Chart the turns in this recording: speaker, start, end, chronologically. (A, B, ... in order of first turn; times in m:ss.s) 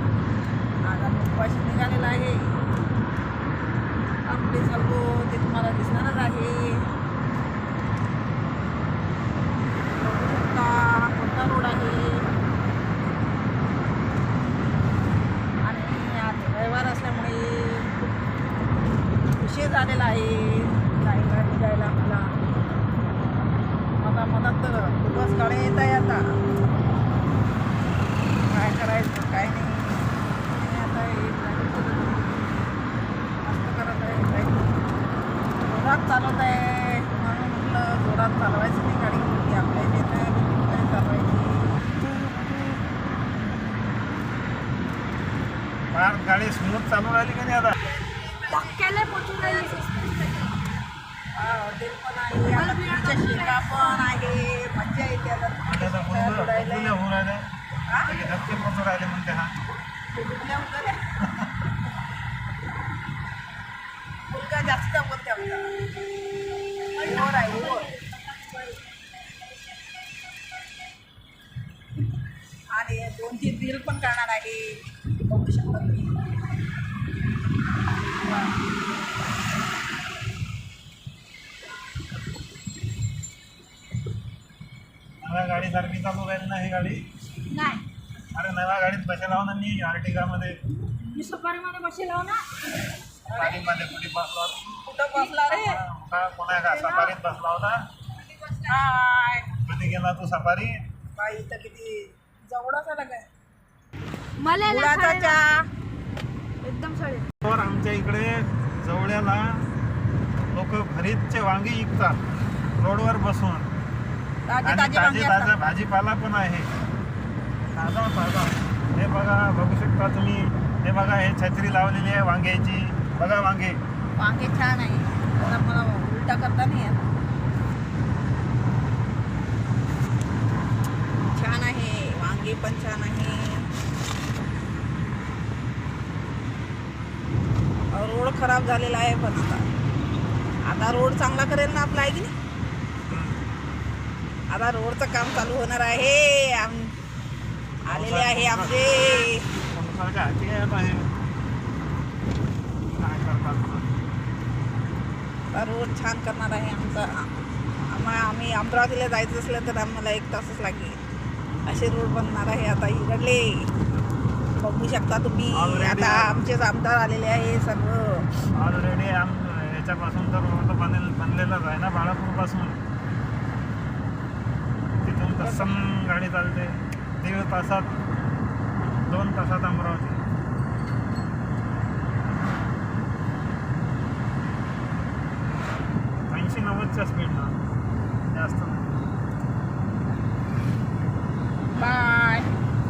0:00.9-0:02.5 A
0:04.2-0:06.8 A
0:09.9-0:12.3 A
0:15.6-0:18.1 A
0:19.4-0:22.3 A
0:24.0-0:26.2 A
0:28.5-0:32.5 A
0:33.4-0:34.8 A
0:35.7-0:41.8 A
0:45.9-0:47.8 B
0:48.1-0:48.6 A
0:48.5-0:50.0 C
0:51.4-0:57.0 A
0:52.5-0:54.1 C
0:55.6-0:57.4 B
0:57.9-0:58.2 A
0:58.0-0:59.6 B
1:00.1-1:01.0 A
1:04.3-1:05.7 A
1:07.0-1:07.9 A
1:07.0-1:08.8 C
1:12.7-1:16.2 A
1:25.2-1:27.0 B
1:27.5-1:27.8 C
1:28.3-1:30.6 B
1:31.0-1:32.4 C
1:33.3-1:33.6 A
1:33.4-1:34.8 B
1:34.8-1:35.8 A
1:35.2-1:35.8 C
1:35.6-1:37.8 B
1:36.7-1:37.2 C
1:38.5-1:39.6 A
1:39.6-1:40.8 B
1:41.2-1:43.3 A
1:44.4-1:45.4 C
1:44.6-1:45.6 A
1:46.6-1:47.3 C
1:47.4-1:49.6 B
1:50.5-1:52.2 B
1:52.8-1:53.7 B
1:54.5-1:55.5 A
1:54.6-1:56.7 B
1:57.7-2:03.8 B
2:04.2-2:07.0 A
2:11.3-2:13.7 A
2:17.9-2:19.6 A
2:20.6-2:22.3 A
2:23.1-2:23.4 B
2:24.5-2:26.9 A
2:27.9-2:29.5 A
2:27.9-2:28.8 B
2:29.7-2:31.1 B
2:32.9-2:33.9 B
2:35.5-2:37.3 A
2:37.9-2:41.0 A
2:41.7-2:43.7 A
2:44.6-2:48.3 A
2:45.5-2:46.4 B
2:48.6-2:52.8 B
2:55.0-2:57.9 B
2:55.4-2:55.7 A
2:59.0-3:00.2 B
3:06.3-3:07.5 B
3:08.3-3:08.9 B
3:11.8-3:12.5 A